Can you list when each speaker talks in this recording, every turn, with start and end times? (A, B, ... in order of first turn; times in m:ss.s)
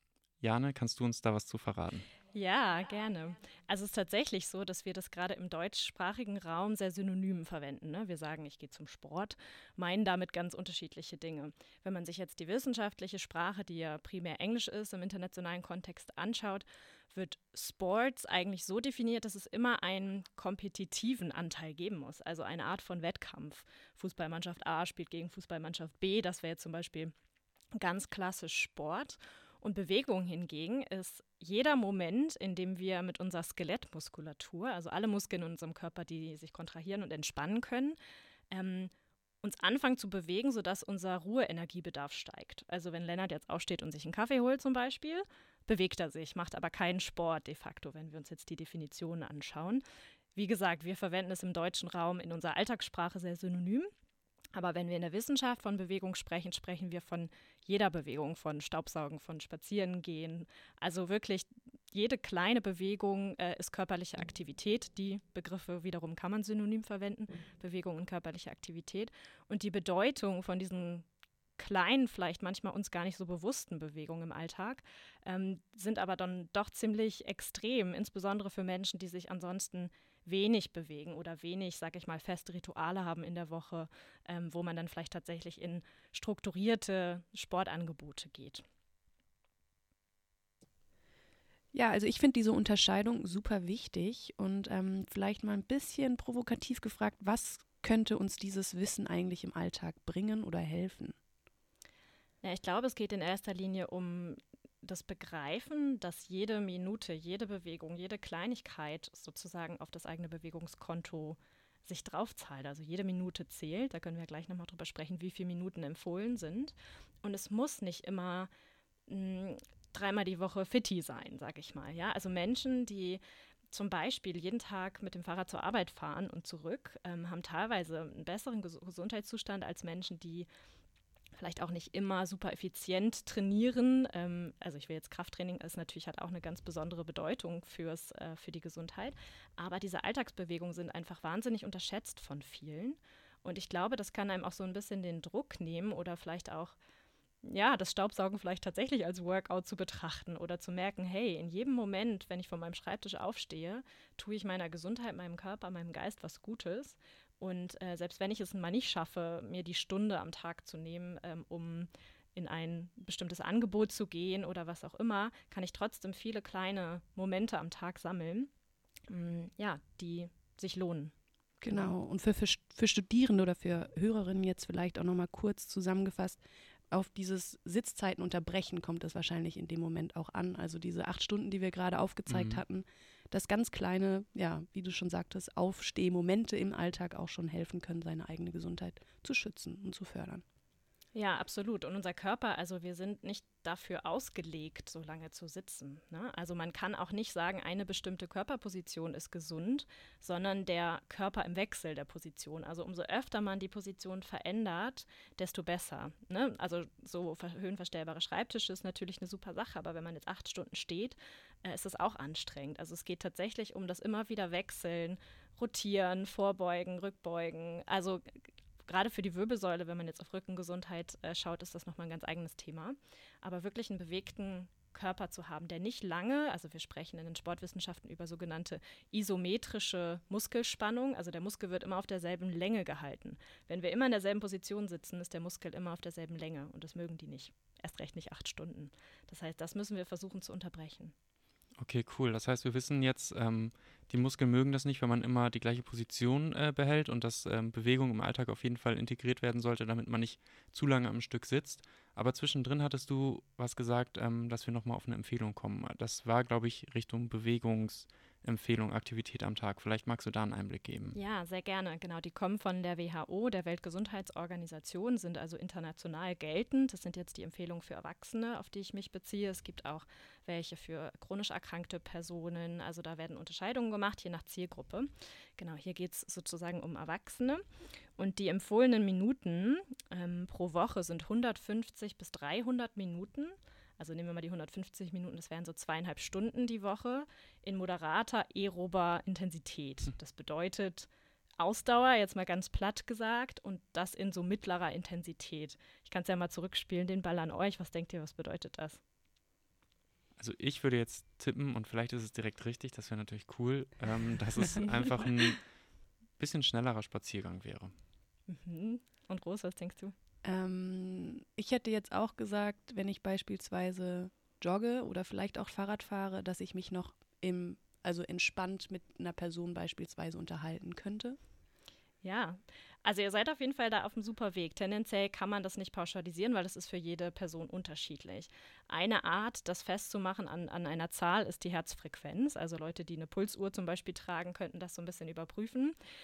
0:00.4-0:02.1 A
0:02.3-0:27.1 B
0:27.8-0:38.0 B
0:38.5-0:38.9 B
0:39.4-0:49.8 B
0:50.4-0:53.9 B
0:54.5-1:11.1 B
1:11.6-1:28.6 B
1:31.7-1:41.2 C
1:42.4-1:58.5 B
1:59.1-2:10.5 B
2:11.4-2:26.8 B
2:27.4-2:48.5 B
2:49.1-2:51.1 B
2:51.6-3:10.4 C
3:02.3-3:02.6 A
3:11.2-4:01.1 B
4:01.8-4:21.2 A
4:21.1-4:37.6 B
4:38.2-4:59.0 B
5:00.4-5:05.6 A
5:06.4-5:07.9 A
5:08.5-5:10.1 B
5:10.4-5:21.4 C
5:22.2-5:36.0 B